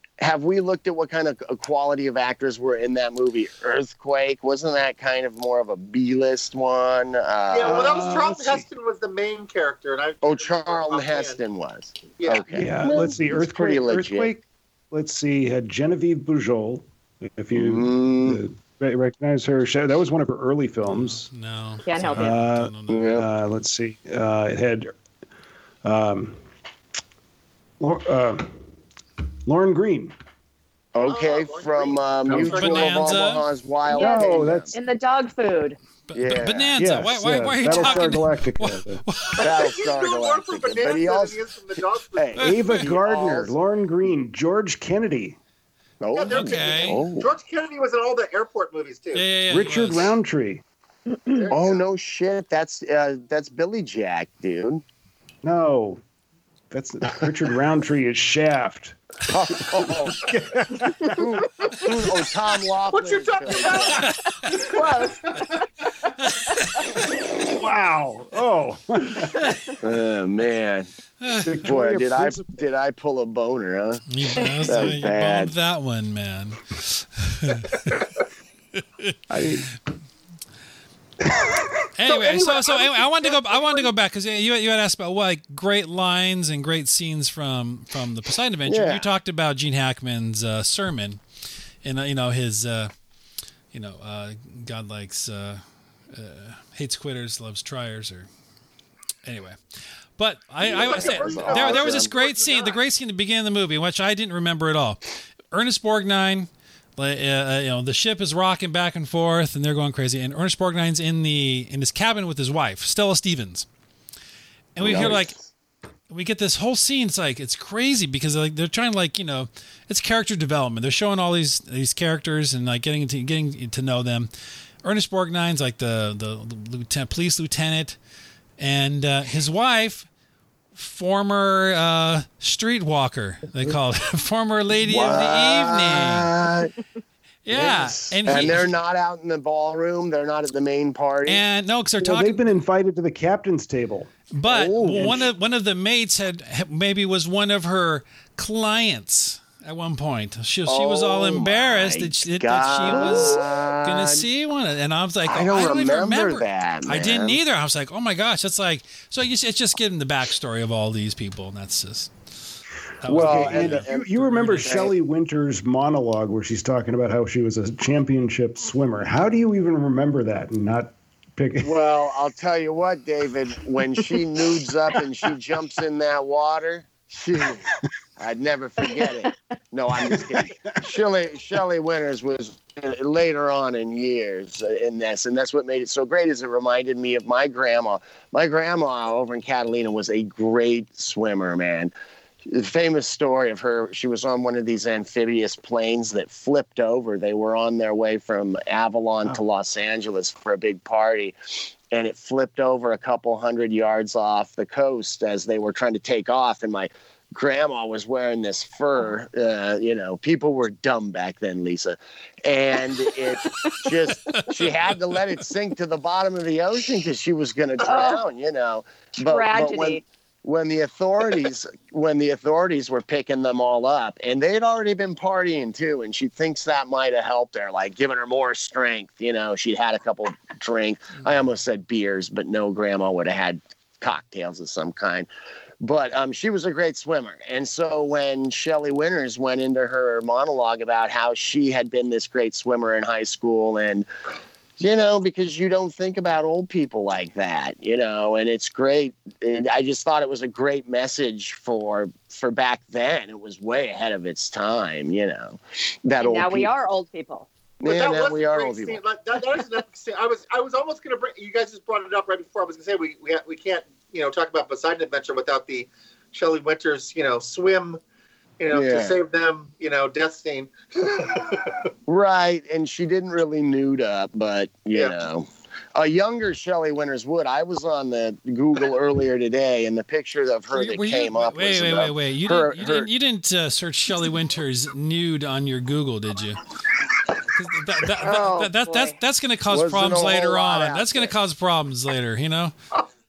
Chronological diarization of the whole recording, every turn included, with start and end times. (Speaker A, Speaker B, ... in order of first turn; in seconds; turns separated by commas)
Speaker A: 0.2-8.2, Speaker B: 7.5-11.4, Speaker C: 7.6-8.6, Speaker A: 10.2-14.3, Speaker B: 12.2-12.6, Speaker C: 12.5-21.3, Speaker A: 17.5-18.4, Speaker D: 20.9-23.2, Speaker E: 21.9-22.3, Speaker C: 22.1-24.9, Speaker A: 22.9-23.2, Speaker C: 25.8-26.4, Speaker C: 27.8-28.6, Speaker C: 29.4-30.1, Speaker A: 30.9-34.7, Speaker B: 31.0-33.2, Speaker C: 32.3-32.6, Speaker D: 32.3-33.5, Speaker E: 33.9-35.8, Speaker C: 33.9-34.7, Speaker D: 36.1-39.6, Speaker A: 36.1-36.8, Speaker C: 36.8-39.0, Speaker B: 39.4-42.4, Speaker A: 39.4-41.4, Speaker A: 42.1-43.5, Speaker D: 42.4-42.9, Speaker C: 42.4-45.4, Speaker A: 46.0-47.3, Speaker B: 46.1-49.2, Speaker D: 46.3-47.0, Speaker D: 49.1-50.1, Speaker C: 49.5-50.6, Speaker B: 51.3-51.8, Speaker A: 51.5-54.8, Speaker C: 55.4-56.0, Speaker C: 56.7-61.5, Speaker A: 59.3-60.3, Speaker A: 60.9-64.1, Speaker B: 62.9-65.6, Speaker D: 64.0-64.3, Speaker E: 64.5-65.3, Speaker D: 66.3-66.8, Speaker C: 67.4-69.5, Speaker A: 69.8-70.9, Speaker D: 71.2-71.6, Speaker C: 71.4-72.6, Speaker A: 71.6-74.0, Speaker D: 74.1-78.1, Speaker A: 74.6-75.5, Speaker D: 78.8-79.2, Speaker C: 79.3-79.7, Speaker D: 81.9-91.2, Speaker B: 82.0-83.9, Speaker A: 88.7-89.1, Speaker D: 91.8-92.9, Speaker D: 93.7-98.3, Speaker D: 99.2-99.6, Speaker D: 100.2-113.7, Speaker A: 100.6-102.1, Speaker B: 100.6-102.8, Speaker D: 114.7-115.3, Speaker A: 114.8-115.5, Speaker D: 116.1-124.3, Speaker D: 124.8-128.0, Speaker D: 128.6-130.1, Speaker D: 130.7-136.3, Speaker A: 134.8-136.7, Speaker D: 137.4-138.7, Speaker A: 137.5-141.4, Speaker D: 141.2-142.4, Speaker C: 142.0-144.1, Speaker D: 144.3-162.1, Speaker A: 144.5-145.3, Speaker C: 144.9-145.2, Speaker A: 150.7-154.2, Speaker A: 155.3-157.4, Speaker D: 163.0-164.9, Speaker C: 163.0-171.7, Speaker A: 163.1-164.9, Speaker A: 171.6-191.9, Speaker C: 180.0-180.4, Speaker A: 192.4-201.3, Speaker A: 201.9-235.3, Speaker E: 217.8-218.2, Speaker E: 219.2-220.0, Speaker A: 235.8-244.1, Speaker A: 244.8-256.7, Speaker E: 256.2-257.5, Speaker A: 257.8-259.0, Speaker B: 257.8-268.0, Speaker B: 268.6-271.9, Speaker A: 268.7-269.2, Speaker A: 272.1-283.1, Speaker B: 274.9-275.2, Speaker D: 280.7-286.7, Speaker D: 287.4-292.7, Speaker E: 288.2-289.2, Speaker A: 289.7-291.3